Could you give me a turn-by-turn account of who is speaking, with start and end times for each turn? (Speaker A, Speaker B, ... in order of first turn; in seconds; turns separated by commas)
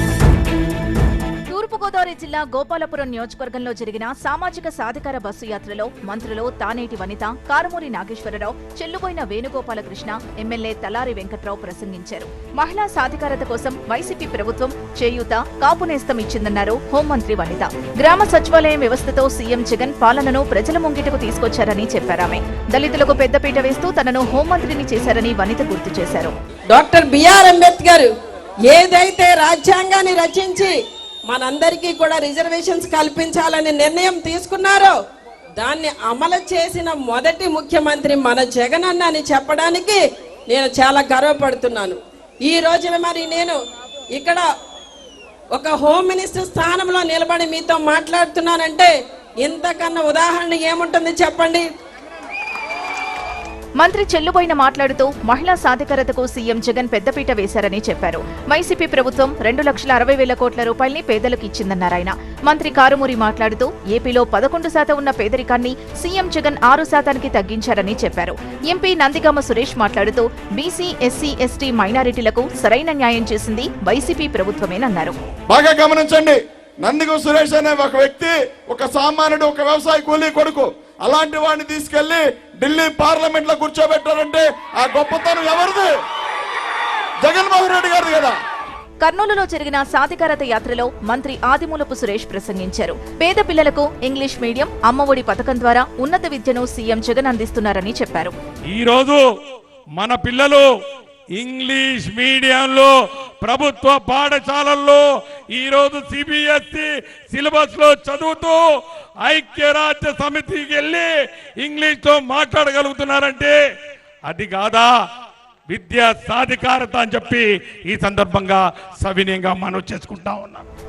Speaker A: 1.5-26.3, Speaker B: 26.7-28.1, Speaker B: 28.7-30.7, Speaker B: 31.3-35.0, Speaker B: 35.6-43.5, Speaker B: 44.1-44.4, Speaker B: 45.5-51.6, Speaker A: 53.8-75.1, Speaker C: 75.5-85.9, Speaker C: 87.2-88.3, Speaker A: 89.0-98.3, Speaker D: 98.7-99.2, Speaker D: 100.0-100.7, Speaker D: 101.4-108.6, Speaker D: 109.2-111.1, Speaker D: 111.6-113.6, Speaker D: 114.3-114.9, Speaker D: 115.7-120.7